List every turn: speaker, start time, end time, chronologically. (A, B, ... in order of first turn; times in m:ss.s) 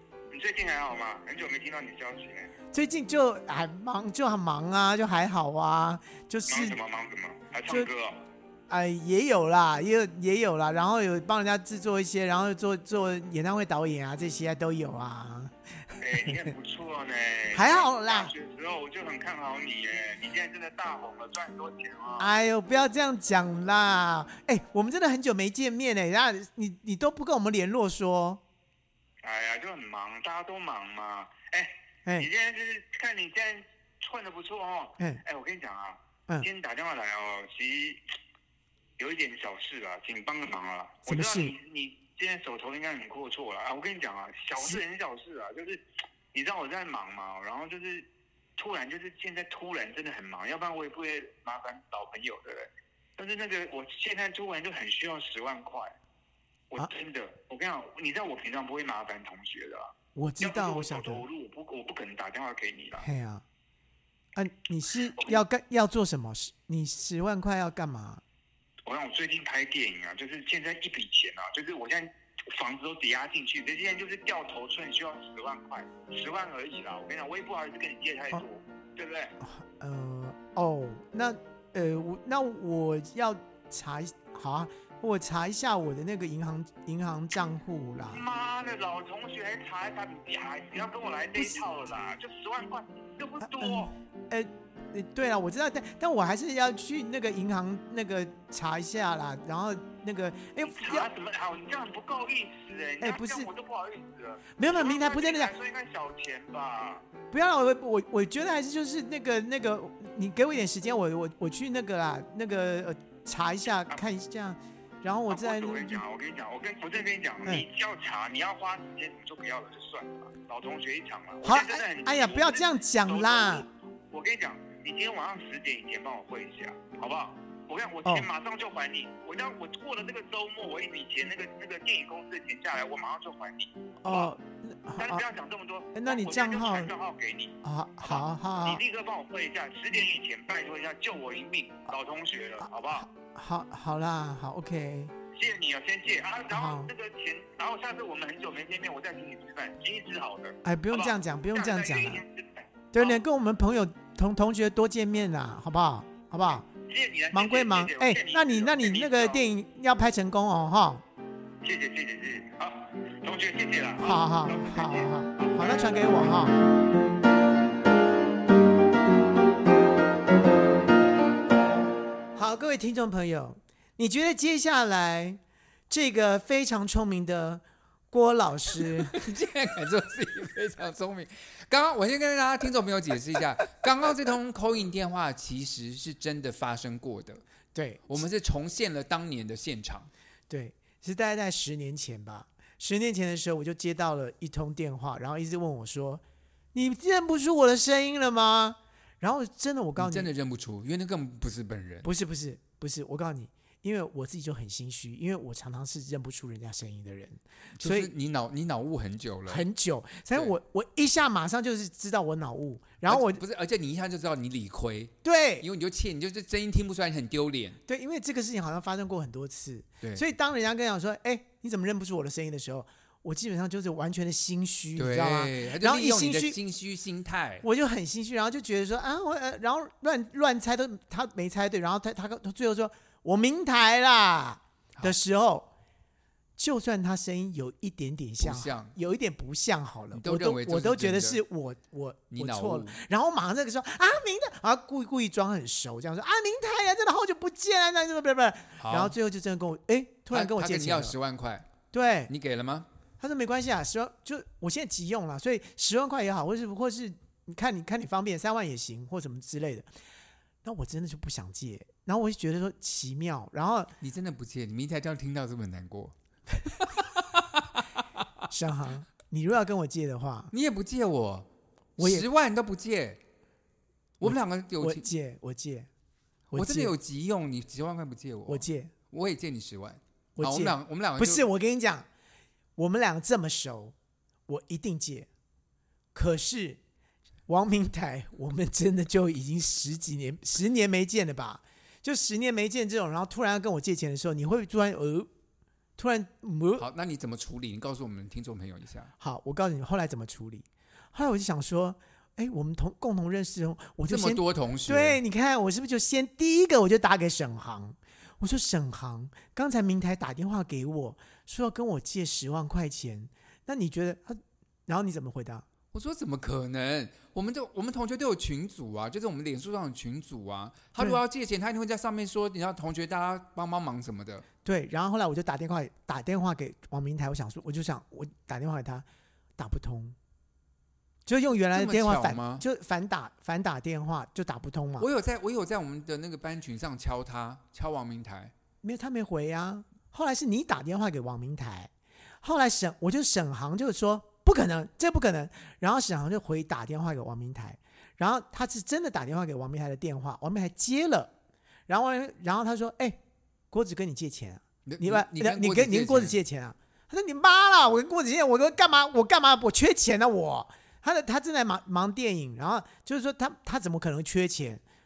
0:00.3-0:02.5 A
0:02.7-0:06.8 B
0:06.5-0:08.2 A
0:08.7-0:15.5 B
0:16.0-0:22.3 A
0:17.5-0:18.3 B
0:22.2-0:28.4 B
0:29.2-0:38.0 A
0:39.0-0:45.8 A
0:41.1-0:41.6 B
0:46.3-0:55.9 A
0:56.7-1:03.1 A
1:00.2-1:01.2 B
1:03.0-1:03.4 B
1:04.4-1:08.2 B
1:05.0-1:05.4 A
1:08.9-1:19.4 A
1:19.4-1:28.2 B
1:28.1-1:33.9 A
1:33.4-1:41.1 B
1:40.7-1:47.0 A
1:43.0-1:43.5 B
1:44.6-1:45.5 B
1:47.3-1:56.0 B
1:55.3-2:14.3 A
2:01.4-2:03.7 B
2:14.0-2:15.2 B
2:15.0-2:23.1 A
2:16.0-2:16.9 B
2:17.6-2:18.8 B
2:22.9-2:25.1 B
2:25.3-2:33.2 A
2:26.5-2:26.9 B
2:30.6-2:32.2 B
2:32.9-2:36.6 B
2:36.5-2:39.5 A
2:37.3-2:41.0 B
2:41.6-2:46.3 A
2:44.0-2:46.6 B
2:52.4-2:59.2 B
2:58.8-3:07.4 C
3:07.7-3:08.2 B
3:08.1-3:10.1 C
3:10.5-3:16.2 B
3:16.7-3:20.3 B
3:20.0-3:22.1 C
3:22.0-3:28.1 B
3:27.8-3:29.6 C
3:29.5-3:33.4 B
3:33.1-3:37.8 C
3:35.2-3:35.7 B
3:37.9-3:46.6 B
3:45.0-3:47.6 C
3:47.6-3:55.7 B
3:56.6-4:11.2 B
3:58.4-3:59.0 C
4:00.1-4:01.4 C
4:02.3-4:03.0 C
4:08.8-4:09.2 C
4:10.3-4:11.7 C
4:11.9-4:12.3 B
4:12.3-4:12.9 C
4:13.2-4:19.9 B
4:20.6-4:23.9 B
4:24.0-4:28.3 C
4:28.5-4:30.5 B
4:30.5-4:33.2 C
4:32.0-4:32.3 B
4:34.2-4:35.0 C
4:34.2-4:35.9 B
4:36.5-4:36.9 B
4:36.6-4:41.4 C
4:38.5-4:38.9 B
4:40.4-4:42.1 B
4:42.8-4:44.0 B
4:44.5-4:45.3 B
4:46.1-4:46.8 B
4:47.5-4:55.3 B
4:56.0-4:56.9 B
4:56.8-4:59.1 C
4:59.2-5:15.7 B
5:04.1-5:05.2 C
5:15.9-5:24.4 C
5:24.6-5:29.0 B
5:29.6-5:30.2 B
5:31.3-5:35.1 B
5:31.7-5:32.6 C
5:35.0-5:38.5 C
5:38.8-5:41.9 B
5:42.4-5:51.3 B
5:51.9-5:53.2 B
5:53.7-6:04.8 B
5:54.9-5:56.4 C